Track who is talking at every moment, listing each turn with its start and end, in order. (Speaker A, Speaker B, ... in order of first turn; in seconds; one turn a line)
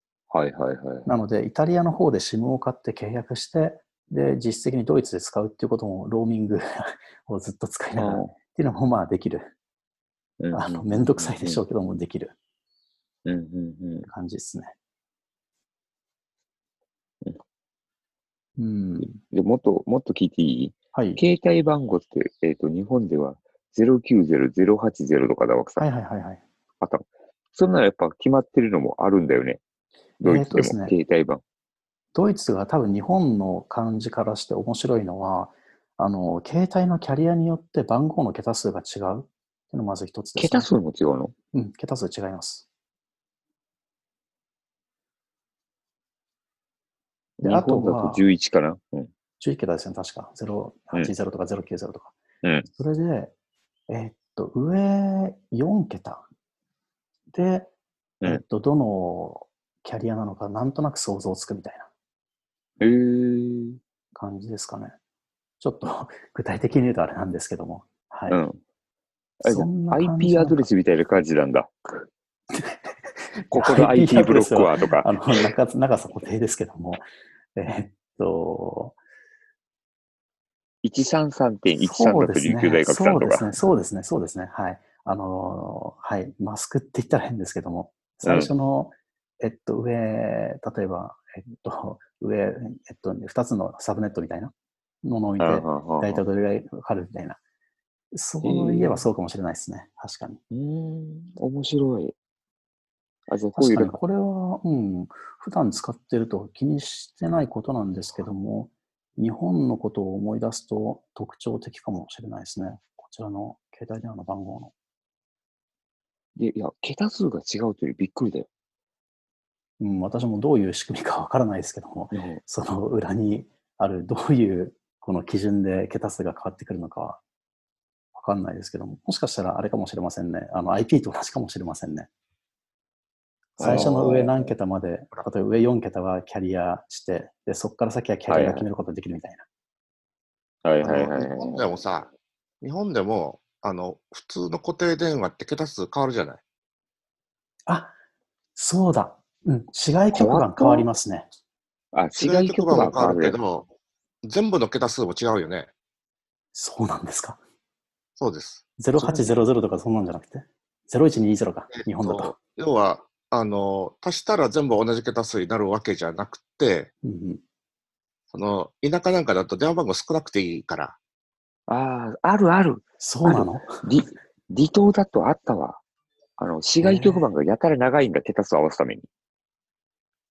Speaker A: 0.3-1.1
Speaker B: 1.1-9.5
Speaker A: 8.0-8.3
Speaker A: 10.4-11.6
Speaker B: 10.5-12.3
Speaker A: 13.2-14.1
Speaker B: 14.1-14.7
Speaker B: 18.6-19.2
Speaker A: 19.0-25.9
Speaker B: 20.9-21.2
Speaker B: 25.8-26.4
Speaker A: 26.8-29.6
Speaker A: 30.2-31.4
Speaker B: 30.2-30.9
Speaker B: 32.1-40.7
Speaker A: 40.4-41.3
Speaker B: 41.5-42.7
Speaker A: 47.4-49.1
Speaker B: 47.4-48.2
Speaker B: 49.4-52.1
Speaker A: 52.4-52.7
Speaker B: 52.8-53.3
Speaker B: 53.9-56.2
Speaker B: 57.3-57.7
Speaker B: 58.2-61.9
Speaker A: 62.8-63.8
Speaker B: 64.2-65.0
Speaker B: 65.6-68.4
Speaker A: 68.3-68.6
Speaker A: 69.4-72.1
Speaker B: 69.5-70.7
Speaker B: 72.5-72.9
Speaker A: 73.5-75.4
Speaker B: 73.5-77.0
Speaker B: 77.6-79.0
Speaker A: 80.8-83.7
Speaker B: 81.8-97.4
Speaker A: 88.2-88.5
Speaker A: 95.4-96.2
Speaker B: 98.1-100.4
Speaker A: 98.4-99.0
Speaker A: 100.5-102.2
Speaker A: 103.3-104.0
Speaker B: 103.5-114.7
Speaker A: 116.4-118.5
Speaker B: 119.8-127.2
Speaker A: 122.1-122.4
Speaker B: 128.1-132.1
Speaker C: 133.6-134.2
Speaker A: 133.6-134.3
Speaker B: 133.6-139.4
Speaker A: 138.3-138.7
Speaker A: 140.6-141.6
Speaker C: 140.8-142.1
Speaker C: 142.6-146.4
Speaker B: 147.7-147.9
Speaker B: 148.6-151.3
Speaker A: 150.1-150.9
Speaker A: 151.9-153.4
Speaker C: 152.2-153.7
Speaker C: 154.2-155.7
Speaker B: 156.5-157.4
Speaker C: 158.2-158.6
Speaker B: 158.8-162.4
Speaker A: 159.0-159.4
Speaker C: 161.7-166.9
Speaker B: 167.0-167.4
Speaker C: 168.3-171.0
Speaker A: 171.7-175.8
Speaker B: 173.0-173.7
Speaker A: 176.4-179.1
Speaker B: 176.8-177.2